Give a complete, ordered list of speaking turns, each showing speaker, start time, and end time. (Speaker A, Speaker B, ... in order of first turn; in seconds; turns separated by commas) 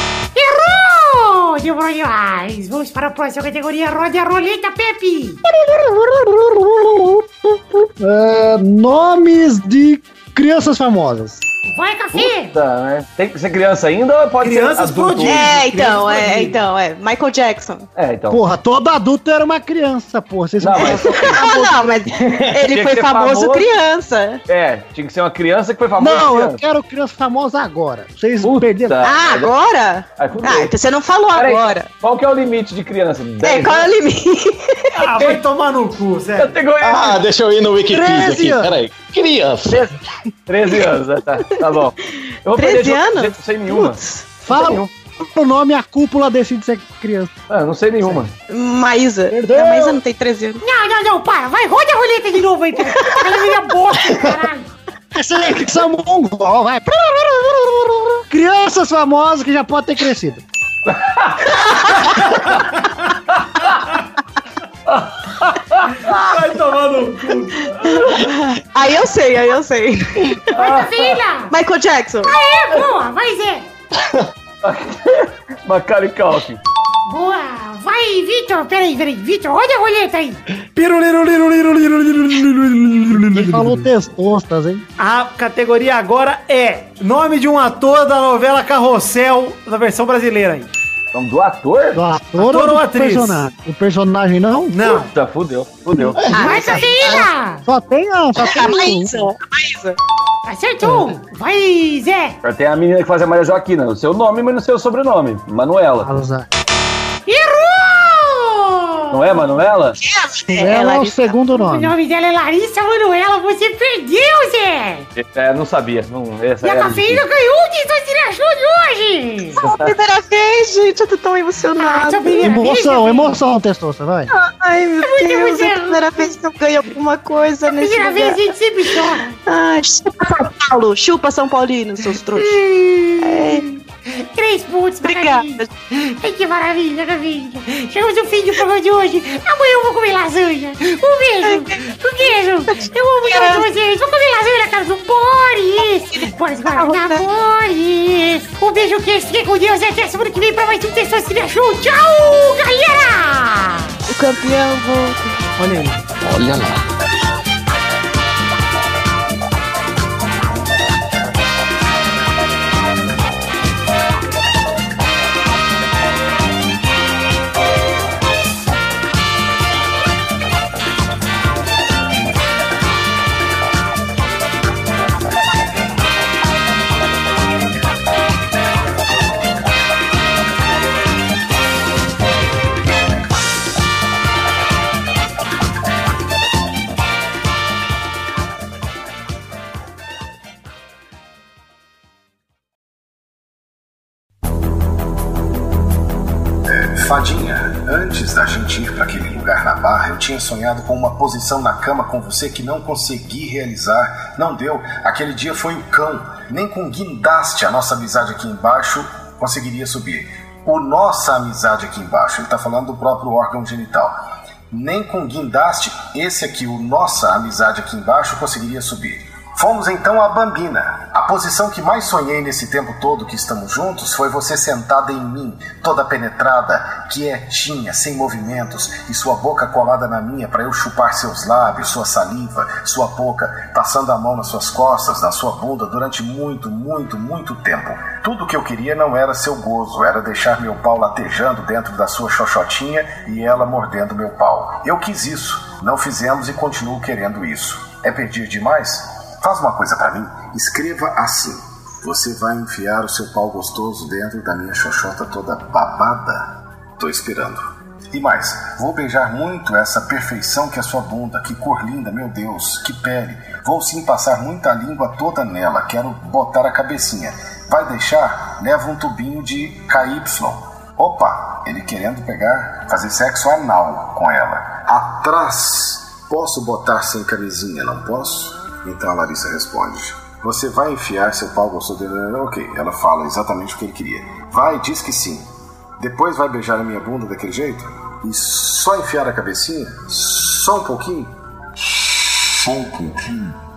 Speaker A: 0.3-5.4, Speaker B: 5.5-7.2, Speaker B: 8.0-11.4, Speaker A: 11.7-12.5, Speaker C: 12.1-15.4, Speaker D: 14.4-16.6, Speaker E: 15.2-17.9, Speaker C: 17.9-18.4, Speaker B: 18.3-21.8, Speaker C: 20.6-21.4, Speaker E: 20.8-24.4, Speaker C: 22.7-23.7, Speaker C: 24.5-26.6, Speaker B: 26.0-29.0, Speaker C: 28.4-29.5, Speaker E: 29.0-31.9, Speaker C: 30.2-30.7, Speaker C: 31.3-33.9, Speaker E: 33.4-35.0, Speaker D: 35.0-36.6, Speaker C: 35.1-35.4, Speaker C: 36.4-37.2, Speaker F: 36.8-39.9, Speaker B: 37.9-38.7, Speaker C: 39.7-39.9, Speaker C: 40.5-44.9, Speaker E: 42.5-44.3, Speaker B: 44.4-47.3, Speaker C: 47.5-48.3, Speaker E: 48.5-50.6, Speaker B: 49.3-50.0, Speaker A: 50.6-54.7, Speaker E: 52.9-53.3, Speaker B: 55.1-60.4, Speaker C: 60.9-61.4, Speaker E: 61.5-62.0, Speaker C: 65.8-66.2, Speaker D: 66.0-67.9, Speaker E: 67.9-70.6, Speaker C: 70.5-71.1, Speaker A: 70.6-71.5, Speaker E: 71.5-72.3, Speaker A: 72.2-73.7, Speaker C: 74.6-76.6, Speaker A: 77.1-80.4, Speaker D: 80.7-83.9, Speaker B: 83.1-84.8, Speaker D: 85.0-90.7, Speaker C: 91.1-92.0, Speaker B: 91.9-94.8, Speaker D: 92.4-93.4, Speaker D: 94.7-95.1, Speaker C: 94.9-97.0, Speaker E: 96.3-97.2, Speaker A: 96.3-97.6, Speaker B: 97.1-99.1, Speaker E: 98.4-100.0, Speaker A: 100.5-102.4, Speaker B: 100.8-101.1, Speaker C: 102.4-106.1, Speaker B: 106.0-106.5, Speaker A: 107.3-109.5, Speaker C: 109.1-110.0, Speaker E: 110.0-111.4, Speaker B: 110.5-111.9, Speaker A: 111.5-115.1, Speaker C: 115.2-117.2, Speaker A: 116.6-119.6, Speaker E: 119.6-122.4, Speaker A: 121.8-123.3, Speaker B: 122.4-124.3, Speaker E: 124.3-128.4, Speaker A: 125.0-126.4, Speaker A: 127.7-129.4, Speaker E: 129.4-132.6, Speaker A: 132.4-133.4, Speaker E: 133.2-133.7, Speaker A: 134.2-154.0, Speaker E: 135.0-135.7, Speaker E: 141.4-141.8, Speaker E: 142.7-143.7, Speaker E: 146.2-147.2, Speaker E: 154.1-155.4, Speaker D: 155.6-156.0, Speaker F: 156.2-156.8, Speaker G: 196.7-214.2, Speaker G: 214.7-285.4, Speaker G: 286.0-293.5